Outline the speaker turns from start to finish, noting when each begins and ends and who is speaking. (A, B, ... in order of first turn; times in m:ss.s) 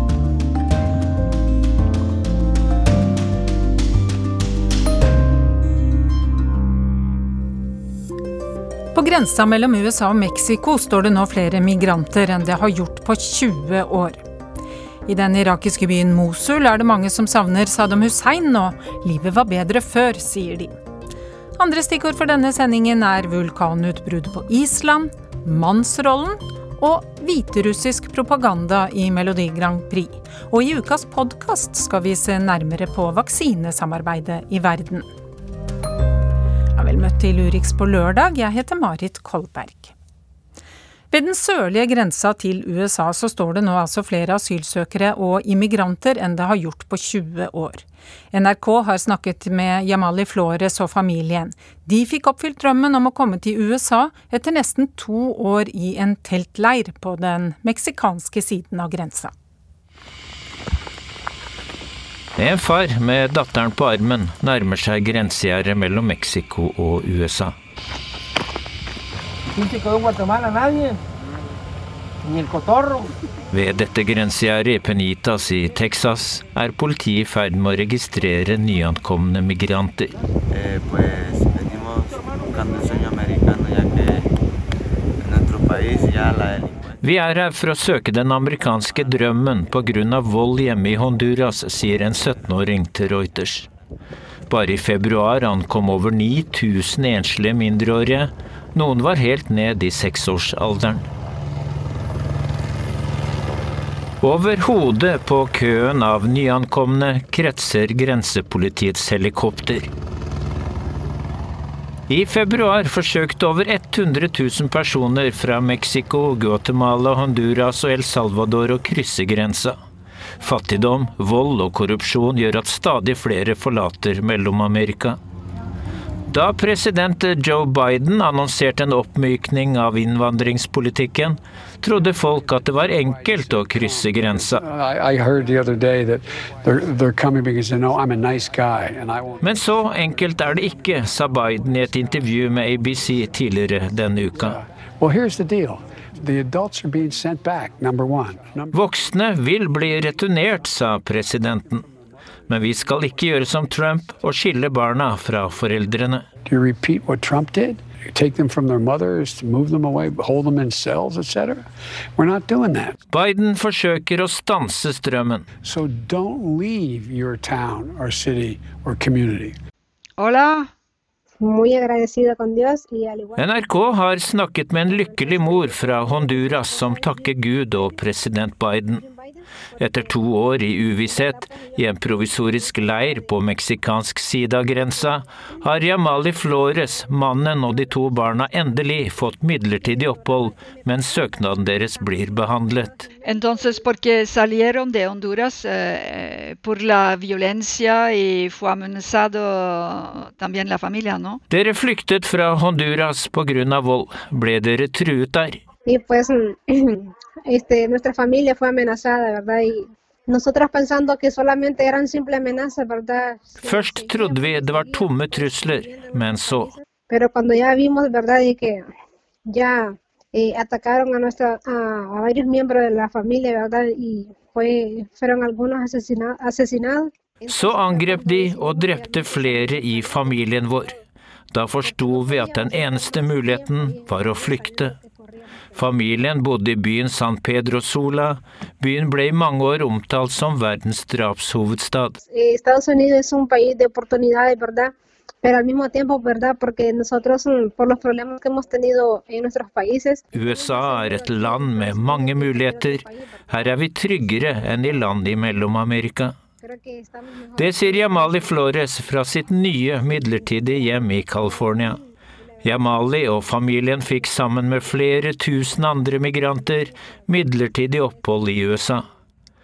0:08.9-0:14.3 A
0:15.1-0:20.8 A
0:21.6-0:35.1 A
0:36.8-0:39.9 A
0:41.1-0:59.3 A
1:02.4-1:07.6 B
1:13.5-1:20.1 B
1:20.5-1:24.3 C
1:25.2-1:27.0 C
1:27.0-1:33.7 B
1:34.5-1:41.0 B
1:44.2-1:49.9 B
1:52.1-1:59.8 B
2:00.4-2:05.2 B
2:06.3-2:14.6 B
2:13.2-2:19.7 D
2:13.4-2:14.0 E
2:19.4-2:24.6 B
2:24.5-2:28.8 D
2:28.7-2:31.9 B
2:32.5-2:36.3 B
2:36.5-2:41.6 D
2:42.2-2:42.9 D
2:43.1-2:45.5 B
2:45.6-2:49.6 D
2:50.2-2:50.7 F
2:51.4-2:54.0 E
2:53.4-2:59.0 B
2:54.8-2:58.3 E
2:59.0-3:00.3 E
2:59.8-3:13.0 B
3:00.8-3:03.4 E
3:09.7-3:13.6 E
3:13.2-3:21.4 F
3:21.5-3:25.6 B
3:25.9-3:38.9 E
3:33.6-3:36.7 B
3:39.5-3:50.9 E
3:47.5-3:50.9 B
3:51.5-3:55.0 B
3:51.8-3:55.8 E
3:55.8-4:02.2 B
4:02.3-4:04.9 E
4:05.4-4:13.8 E
4:10.3-4:16.4 B
4:16.6-4:18.6 E
4:17.6-4:22.0 B
4:21.5-4:22.0 E
4:22.6-4:29.1 B